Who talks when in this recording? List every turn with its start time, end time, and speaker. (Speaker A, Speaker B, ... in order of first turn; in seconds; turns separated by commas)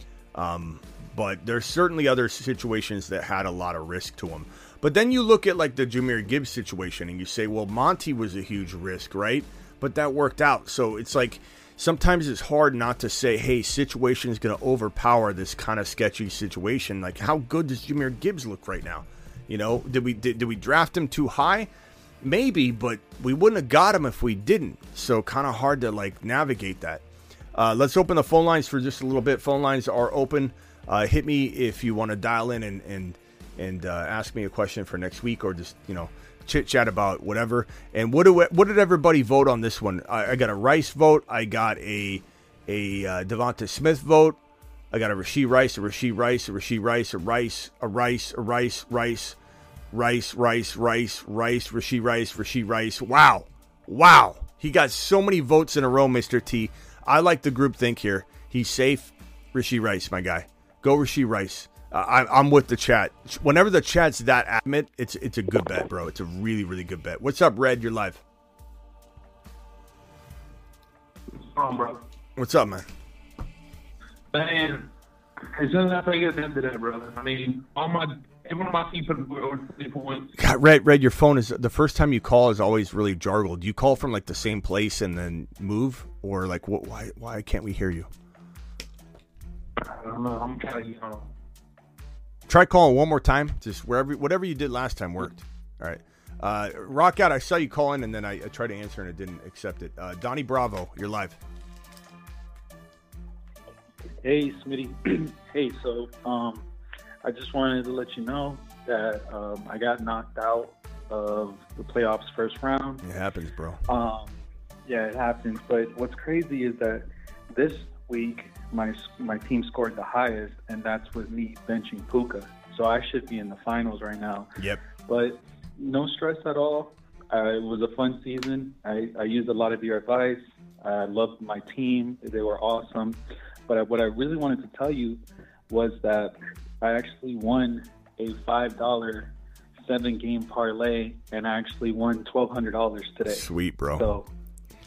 Speaker A: 0.3-21.7, Speaker A: 22.2-27.0, Speaker A: 27.6-44.4, Speaker A: 44.9-49.4, Speaker A: 49.9-68.2, Speaker B: 71.4-72.0, Speaker A: 72.4-72.8, Speaker B: 74.3-74.9, Speaker B: 75.5-80.3, Speaker A: 80.4-88.1, Speaker B: 89.8-91.3, Speaker A: 92.5-101.4, Speaker C: 104.2-106.7, Speaker C: 107.2-113.0, Speaker A: 113.0-113.8, Speaker C: 113.9-144.3, Speaker A: 143.3-144.1